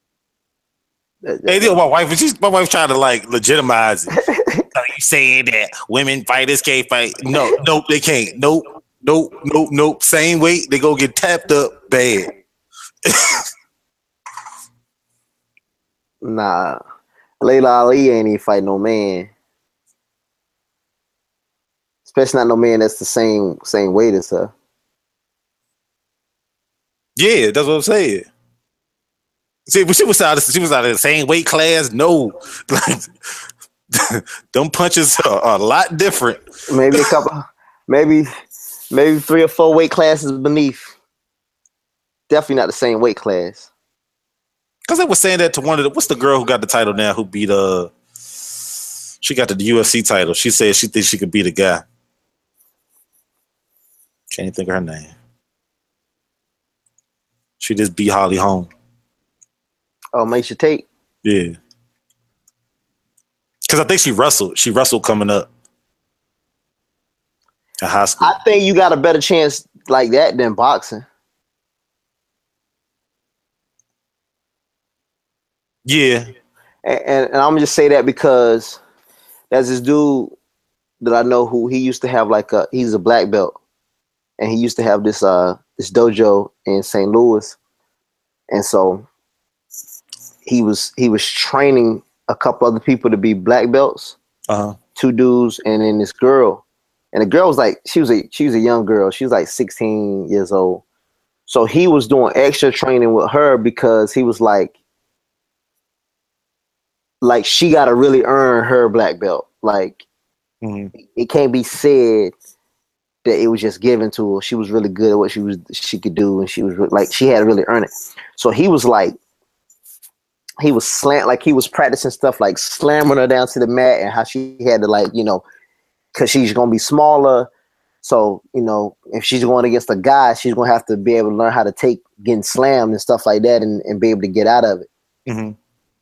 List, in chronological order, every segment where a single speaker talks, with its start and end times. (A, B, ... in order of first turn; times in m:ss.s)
0:01.2-0:01.8 A
0:01.5-0:04.1 B
0:04.2-0:04.6 A
0:04.7-0:12.3 B
0:13.0-0:13.4 B
0:16.2-0:16.8 A
0:17.4-0:19.3 A
0:22.1-0:24.5 A
0:27.2-0:28.3 B
0:29.7-0:33.1 B
0:33.9-0:36.4 B
0:36.7-0:38.3 A
0:38.9-0:40.9 A
0:42.3-0:43.7 A
0:44.9-0:47.9 B
0:49.2-0:51.8 B
0:54.3-0:55.1 B
0:57.6-0:58.7 B
1:00.1-1:00.9 A
1:01.2-1:01.6 B
1:03.7-1:05.5 B
1:07.8-1:08.4 B
1:08.2-1:11.0 A
1:15.8-1:16.3 B
1:16.8-1:18.8 A
1:19.5-1:20.3 A
1:21.0-1:23.6 A
1:24.4-1:27.6 A
1:28.5-1:29.1 A
1:30.4-1:34.2 A
1:34.5-1:34.8 B
1:35.0-1:40.8 A
1:41.5-1:44.7 A
1:47.2-1:50.0 A
1:50.6-1:50.9 B
1:51.1-1:52.3 A
1:53.2-1:59.1 A
2:00.6-2:05.4 A
2:06.1-2:07.5 A
2:08.0-2:14.9 A
2:15.3-2:15.6 B